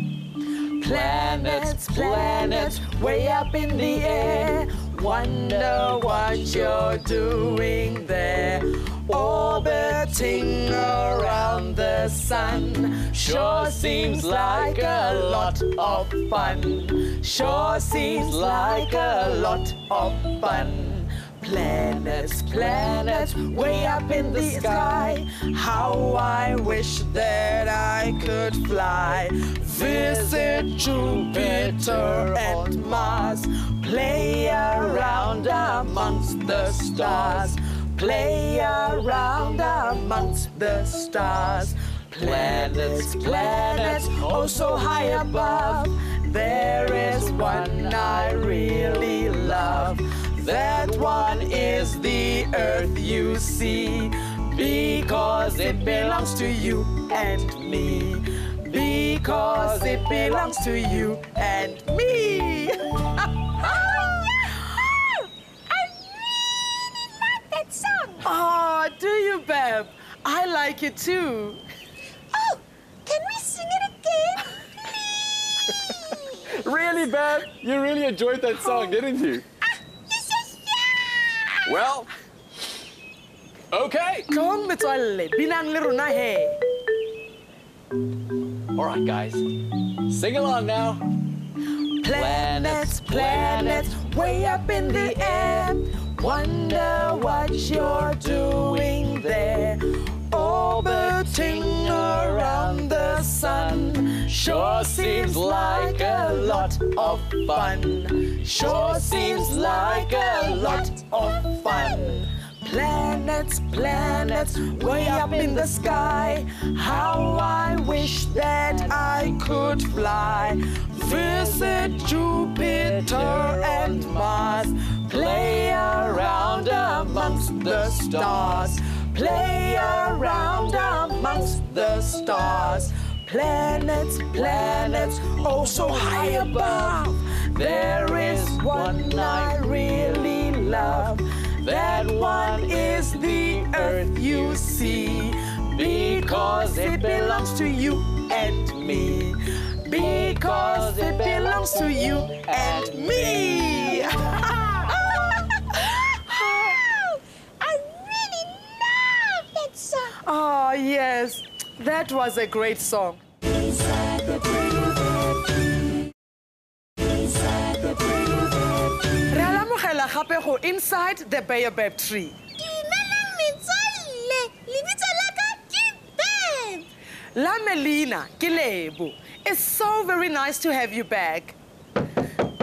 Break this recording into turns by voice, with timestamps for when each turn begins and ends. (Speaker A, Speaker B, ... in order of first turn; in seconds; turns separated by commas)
Speaker A: 0.8-64.1, Speaker B: 0.8-2.9, Speaker B: 5.2-7.0, Speaker B: 9.4-10.6, Speaker B: 13.2-15.8, Speaker B: 18.1-19.4, Speaker B: 22.1-25.1, Speaker B: 29.8-33.2, Speaker B: 37.0-37.5, Speaker B: 42.2-45.8, Speaker B: 46.6-52.0, Speaker B: 54.5-56.5, Speaker B: 59.2-60.8, Speaker C: 63.6-68.3, Speaker A: 68.2-71.6, Speaker C: 72.3-76.5, Speaker B: 76.5-79.4, Speaker C: 78.5-79.0, Speaker C: 79.6-81.7, Speaker B: 81.6-82.1, Speaker B: 83.7-84.3, Speaker A: 84.3-86.6, Speaker B: 88.8-89.4, Speaker B: 90.1-91.0, Speaker A: 92.0-155.2, Speaker B: 92.1-94.0, Speaker B: 98.4-99.2, Speaker B: 100.5-107.8, Speaker B: 108.5-110.8, Speaker B: 114.5-115.7, Speaker B: 121.1-121.9, Speaker B: 122.7-124.6, Speaker B: 125.1-128.7, Speaker B: 134.3-137.0, Speaker B: 137.6-140.0, Speaker B: 141.7-144.5, Speaker B: 145.7-147.7, Speaker B: 149.9-154.0, Speaker C: 154.0-155.4, Speaker A: 156.1-156.7, Speaker C: 156.5-160.2, Speaker A: 160.2-163.2, Speaker A: 169.3-172.4, Speaker C: 172.6-176.9, Speaker A: 177.3-181.6